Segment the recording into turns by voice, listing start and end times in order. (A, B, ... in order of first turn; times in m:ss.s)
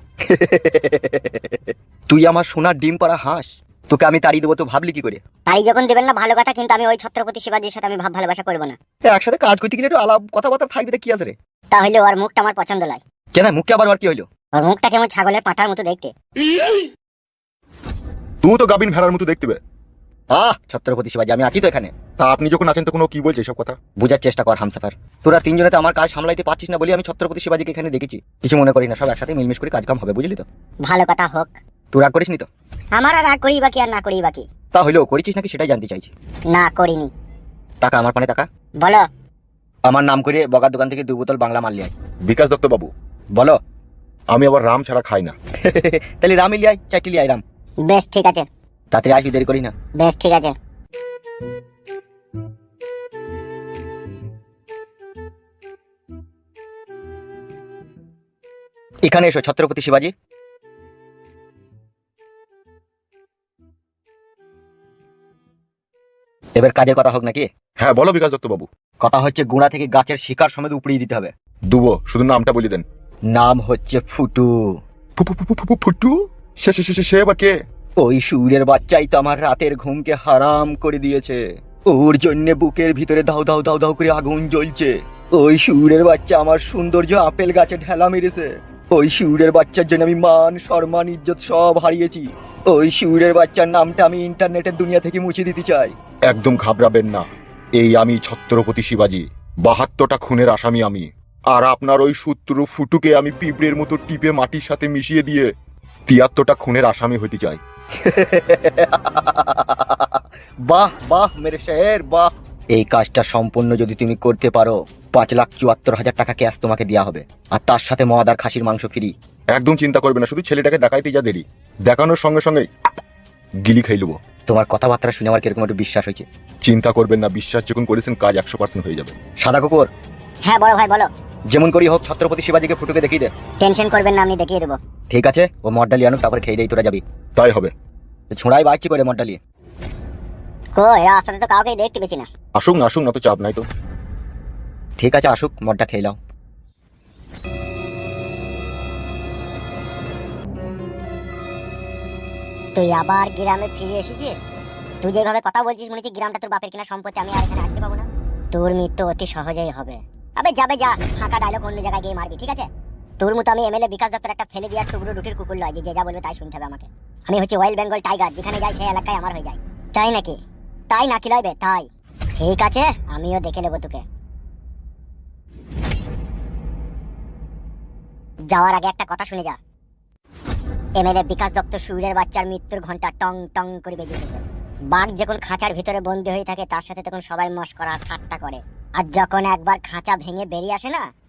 0:00.2-0:05.2 A
0:05.5-0:08.8 B
0:09.1-0:11.3 A
0:11.7-0:13.0 B
0:13.3-0:14.2 A
0:14.5-0:16.1 B
0:18.4-0:19.6 C
0:20.3-0:22.0 A
0:22.1-0:23.8 C
0:23.9-0:30.4 A
0:30.8-0:31.6 B
0:31.9-0:32.5 A
0:32.9-0:34.4 B
0:34.7-0:36.1 A
0:36.5-0:37.1 B
0:37.8-0:38.4 A
0:39.9-0:41.9 A
0:42.3-0:42.9 C
0:44.3-0:45.3 C
0:45.6-0:47.4 A
0:47.8-0:48.4 B
0:48.9-0:49.7 A
0:50.0-0:50.5 B
0:59.0-1:00.1 A
1:06.6-1:07.5 A
1:07.8-1:08.6 C
1:09.0-1:11.3 A
1:11.7-1:12.8 C
1:13.3-1:14.6 A
1:15.2-1:17.5 C
1:18.0-1:35.9 A
1:36.3-1:37.2 C
1:37.8-1:45.5 C
1:46.1-1:47.6 C
1:48.0-1:59.1 A
1:59.5-2:02.7 C
2:03.6-2:04.1 C
2:04.5-2:06.2 A
2:06.6-2:09.2 C
2:09.3-2:09.9 A
2:10.4-2:11.1 B
2:11.5-2:13.3 A
2:13.6-2:14.8 B
2:15.1-2:17.0 A
2:17.4-2:17.7 C
2:18.3-2:19.4 A
2:20.8-2:22.3 B
2:22.6-2:23.6 C
2:25.0-2:26.2 A
2:32.7-2:34.5 B
2:35.0-2:42.7 B
2:43.2-2:50.4 B
2:50.9-2:54.0 B
2:58.5-2:59.6 B
3:01.0-3:04.4 B
3:04.9-3:11.1 B